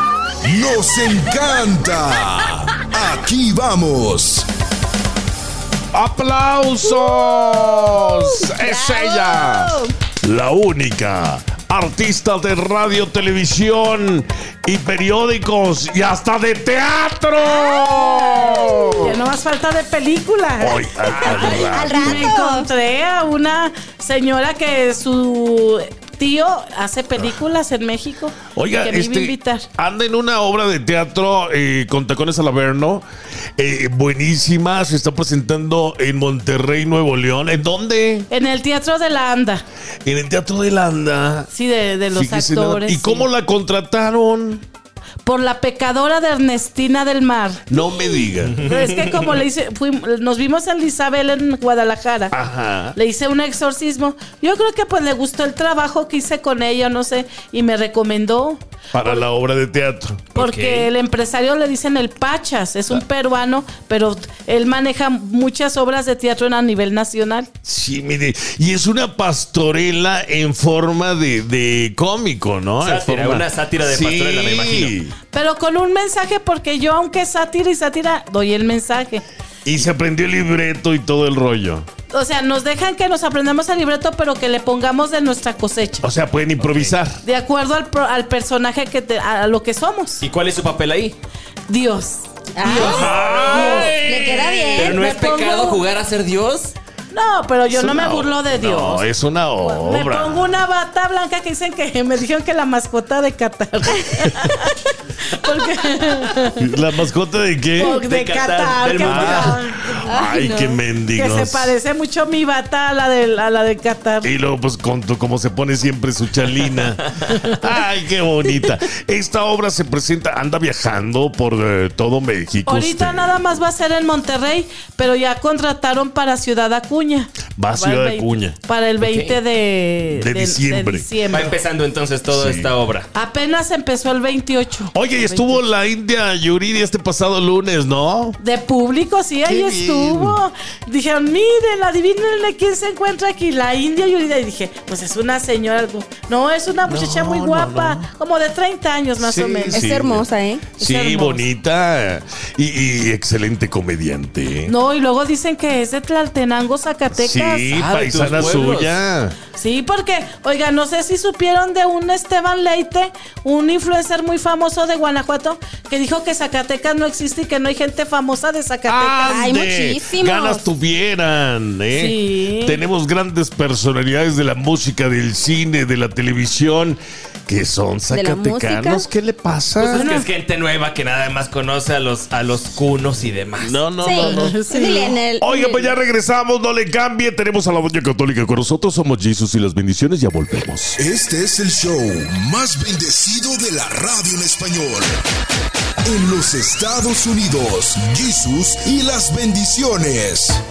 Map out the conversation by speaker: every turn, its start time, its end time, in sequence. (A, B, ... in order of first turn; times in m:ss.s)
0:00.4-0:04.5 A
0:02.4-0:02.7 B
0:05.9-0:19.2 B
0:06.9-0:09.9 C
0:17.4-0:29.7 D
0:20.6-0:22.3 B
0:21.2-0:22.7 C
0:28.6-0:33.0 B
0:33.6-0:38.3 B
0:38.3-0:39.6 D
0:40.0-0:41.5 B
0:41.5-0:43.3 D
0:42.1-0:44.6 B
0:45.2-0:47.6 D
0:47.7-0:48.6 B
0:48.4-0:49.4 E
0:48.6-0:52.4 D
0:52.3-0:53.0 B
0:53.0-0:59.3 D
0:58.9-1:00.3 B
1:00.4-1:00.9 E
1:00.4-1:07.5 D
1:07.6-1:15.2 B
1:12.8-1:15.0 E
1:15.3-1:19.2 D
1:19.6-1:21.9 B
1:22.1-1:26.1 D
1:26.0-1:27.2 B
1:26.6-1:27.0 E
1:27.2-1:30.3 D
1:30.2-1:31.2 E
1:31.7-1:34.0 D
1:32.6-1:35.0 C
1:32.6-1:34.8 B
1:32.6-1:33.9 E
1:34.7-1:36.7 E
1:34.8-1:35.8 D
1:37.1-1:46.7 D
1:37.7-1:40.5 B
1:46.5-1:48.0 B
1:47.8-1:50.1 D
1:48.0-1:49.6 E
1:49.0-1:51.7 B
1:50.0-1:50.8 C
1:51.1-1:54.3 D
1:54.2-2:03.4 B
2:02.7-2:11.6 D
2:07.6-2:08.6 B
2:09.0-2:09.4 E
2:10.1-2:11.1 B
2:11.3-2:13.1 E
2:12.3-2:12.7 B
2:13.1-2:15.7 D
2:14.9-2:18.4 B
2:18.4-2:29.9 D
2:19.4-2:20.4 B
2:26.8-2:28.1 B
2:29.2-2:34.8 B
2:29.7-2:30.7 C
2:30.8-2:31.5 D
2:34.7-2:37.9 D
2:37.1-2:39.4 B
2:37.7-2:39.0 E
2:39.5-2:49.5 D
2:48.9-3:00.0 B
2:49.3-2:50.7 C
2:51.9-2:52.8 D
2:58.1-2:59.1 C
2:59.8-3:03.9 E
2:59.9-3:00.3 D
3:03.6-3:04.6 B
3:04.0-3:05.9 C
3:04.0-3:05.2 D
3:05.4-3:11.0 B
3:11.0-3:15.2 A
3:16.0-3:20.6 A